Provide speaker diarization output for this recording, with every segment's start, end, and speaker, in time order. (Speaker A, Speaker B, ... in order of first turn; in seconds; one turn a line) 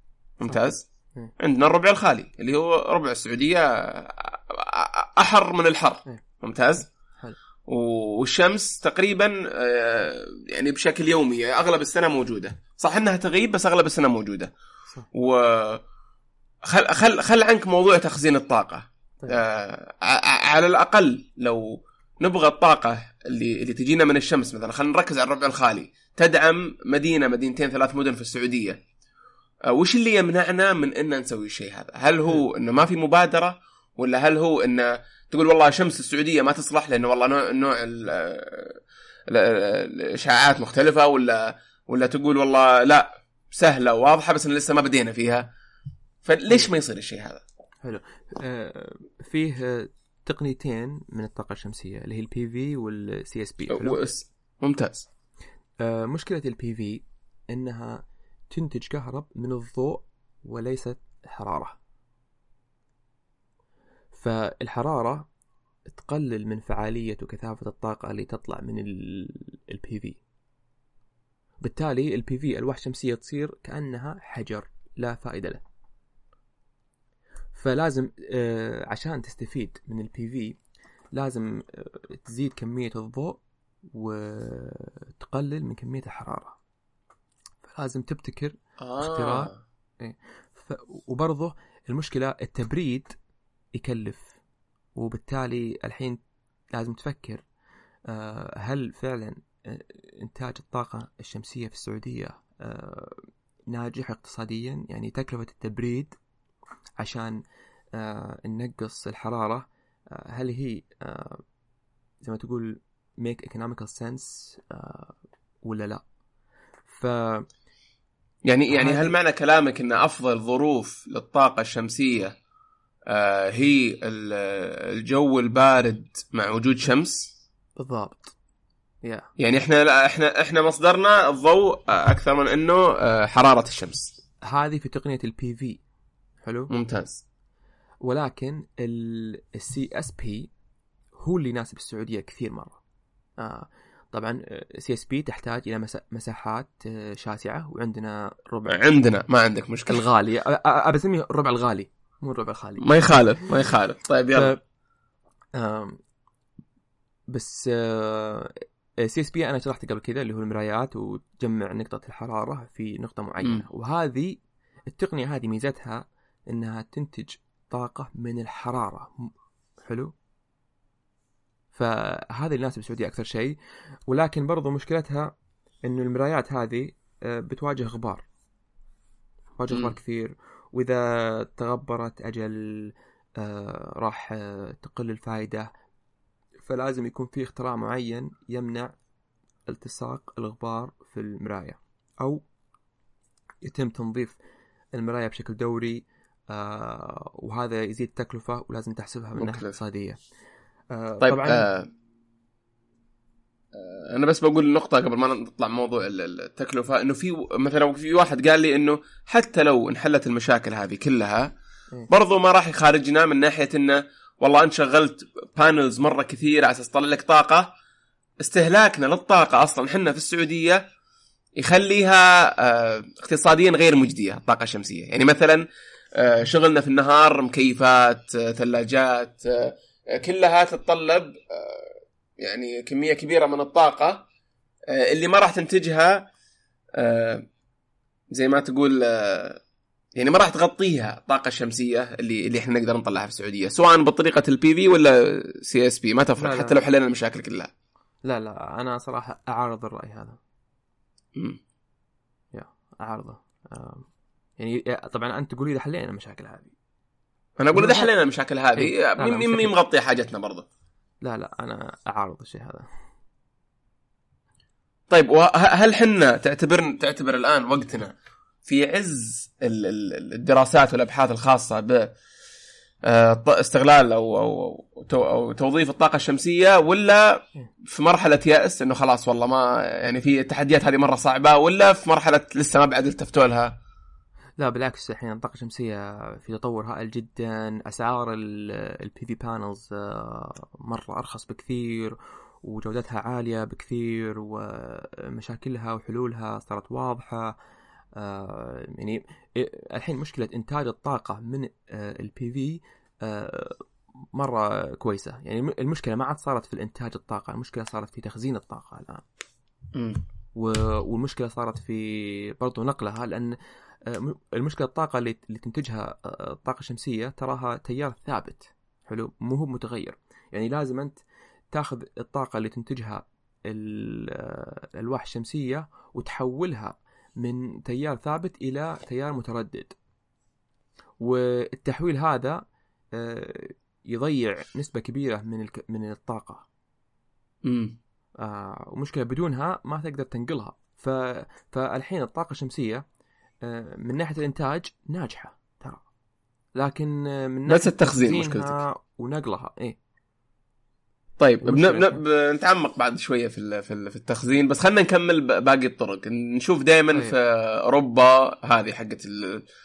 Speaker A: 0.4-0.8
Speaker B: 0.5-1.3
Speaker A: 1.4-6.9
Speaker A: 7.7-14.5
Speaker A: 15.1-15.8
Speaker A: 16.6-28.8
Speaker A: 29.7-45.5
Speaker A: 46.2-47.4
Speaker B: 47.8-54.0
Speaker A: 53.7-55.1
Speaker B: 55.8-61.8
Speaker B: 64.1-65.3
Speaker B: 65.9-70.2
Speaker B: 71.6-75.6
Speaker B: 77.5-80.6
Speaker B: 81.1-86.6
Speaker B: 87.6-93.2
Speaker A: 88.8-89.6
Speaker B: 93.8-94.4
Speaker B: 95.0-96.2
Speaker B: 96.7-97.5
Speaker B: 98.1-106.2
Speaker B: 107.0-107.4
Speaker B: 107.9-111.4
Speaker B: 112.2-116.0
Speaker B: 116.9-117.5
Speaker A: 118.5-122.4
Speaker B: 118.7-119.1
Speaker A: 123.1-127.3
Speaker B: 127.8-128.3
Speaker B: 129.0-129.3
Speaker A: 129.4-134.1
Speaker B: 134.4-135.8
Speaker B: 136.4-136.7
Speaker A: 136.7-137.2
Speaker B: 138.0-140.5
Speaker B: 141.2-142.8
Speaker B: 143.4-148.8
Speaker A: 148.7-150.1
Speaker B: 149.9-152.9
Speaker A: 152.8-154.6
Speaker B: 154.3-154.6
Speaker B: 155.6-156.0
Speaker B: 157.3-170.1
Speaker B: 171.7-173.6
Speaker B: 174.1-178.3
Speaker B: 179.6-185.7
Speaker A: 179.7-180.0
Speaker B: 186.6-189.0
Speaker B: 189.7-192.4
Speaker B: 193.6-194.4
Speaker B: 194.9-200.2
Speaker A: 199.4-199.8
Speaker B: 200.9-201.7
Speaker A: 201.2-201.9
Speaker A: 203.7-211.5
Speaker A: 212.1-217.7
Speaker A: 218.4-220.8
Speaker A: 221.6-234.3
Speaker A: 234.9-236.3
Speaker A: 237.0-237.5
Speaker A: 238.3-239.6
Speaker A: 240.2-247.7
Speaker B: 246.4-246.8
Speaker B: 248.2-250.4
Speaker A: 251.3-251.6
Speaker B: 252.5-254.1
Speaker B: 254.6-256.8
Speaker A: 257.6-260.7
Speaker B: 257.7-258.1
Speaker B: 258.8-259.7
Speaker B: 261.2-262.9
Speaker A: 265.1-268.1
Speaker A: 268.6-272.1
Speaker A: 273.0-283.8
Speaker B: 284.6-297.6
Speaker B: 298.2-309.2
Speaker A: 309.9-310.2
Speaker B: 310.6-321.2
Speaker B: 321.7-330.0
Speaker B: 331.2-332.6
Speaker B: 333.1-336.7
Speaker A: 337.6-338.0
Speaker B: 338.4-343.0
Speaker B: 343.6-346.0
Speaker B: 346.8-350.0
Speaker A: 347.7-348.8
Speaker A: 351.4-359.7
Speaker B: 351.6-352.2